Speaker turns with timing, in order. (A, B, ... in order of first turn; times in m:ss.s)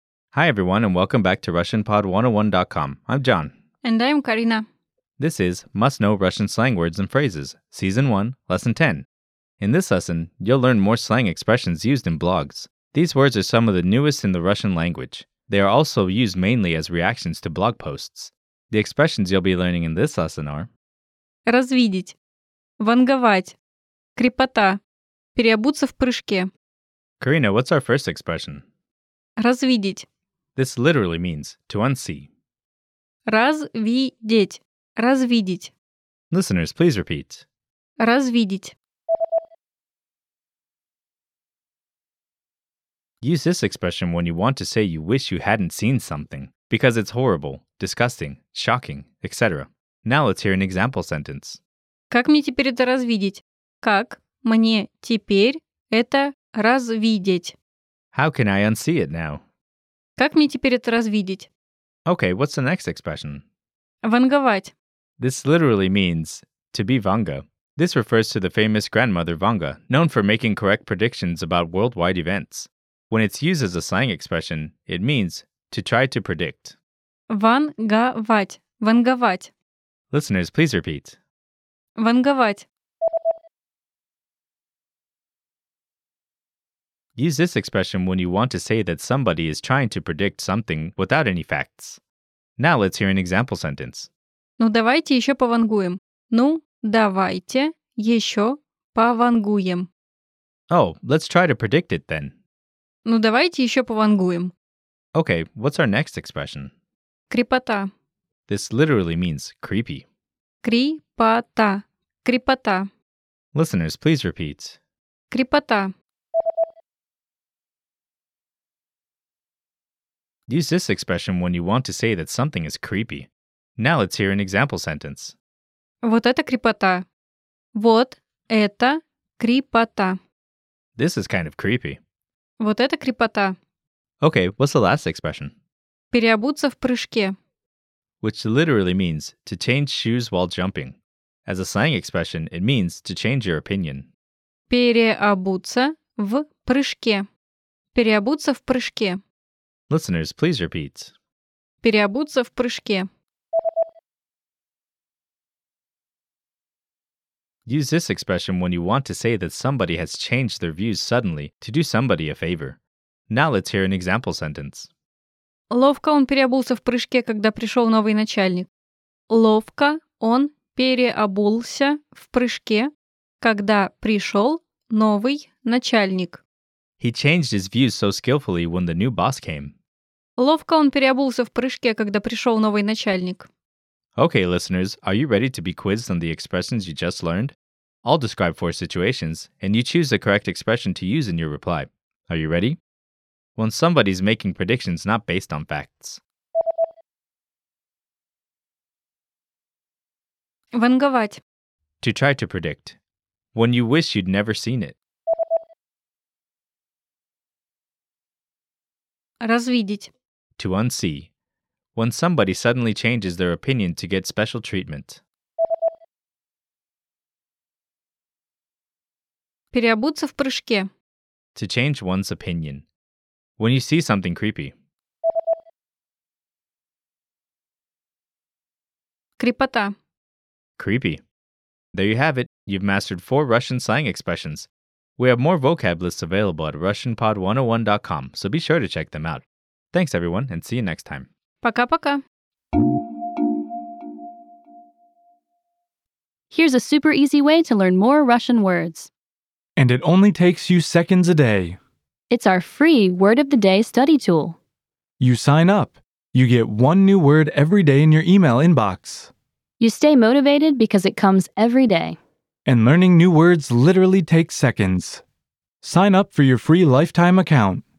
0:00.3-0:03.5 A
0:03.8-0:04.6 B
0:05.2-0:09.1 A
0:09.6-0:20.7 A
0:21.5-0:22.2 B
0:22.8-0:23.6 B
0:24.2-0:24.8 B
0:25.4-0:26.5 B
0:27.2-0:28.6 A
0:29.4-0:30.1 B
0:30.6-0:32.3 A
0:33.3-0:35.7 B
0:36.3-0:37.4 A
0:38.0-0:38.8 B
0:43.2-0:51.6 A
0:52.1-0:57.6 B
0:58.1-0:59.4 A
1:00.2-1:01.5 B
1:02.1-1:03.4 A
1:04.0-1:04.7 B
1:05.2-1:16.8 A
1:17.3-1:19.5 B
1:20.1-1:21.2 A
1:22.0-1:22.7 B
1:27.2-1:32.0 A
1:32.6-1:34.1 A
1:34.6-1:39.9 B
1:40.7-1:42.3 A
1:43.1-1:44.5 B
1:45.1-1:46.7 A
1:47.3-1:47.9 B
1:48.5-1:50.1 A
1:50.6-1:52.9 B
1:53.5-1:54.8 A
1:55.3-1:55.9 B
2:00.5-2:05.4 A
2:06.0-2:07.1 B
2:07.8-2:10.2 B
2:11.0-2:12.0 A
2:12.6-2:13.5 B
2:14.2-2:15.5 A
2:16.1-2:17.3 B
2:18.2-2:24.1 A
2:24.7-2:27.2 B
2:27.9-2:29.2 B
2:29.9-2:31.1 A
2:31.8-2:33.1 B
2:37.7-2:44.9 A
2:45.7-2:48.7 B
2:49.3-2:52.9 B
2:53.4-2:56.4 B
2:57.0-2:59.8 A
3:00.4-3:03.5 B
3:04.2-3:12.8 A
3:13.6-3:16.2 A
3:20.7-3:21.4 B
3:22.0-3:23.0 A
3:23.6-3:25.0 A
3:29.4-3:30.1 B
3:30.6-3:31.3 A
3:32.0-3:35.2 A
3:39.7-3:40.9 B
3:41.6-3:42.9 A
3:43.6-3:44.7 A
3:49.4-3:49.9 B
3:50.8-3:51.2 A
3:51.9-4:01.3 A
4:01.6-4:02.2 B
4:06.5-4:09.1 C
4:09.8-4:11.8 D
4:12.3-4:14.6 C
4:15.2-4:19.3 D
4:19.8-4:22.2 C
4:22.6-4:25.2 D
4:25.8-4:27.8 D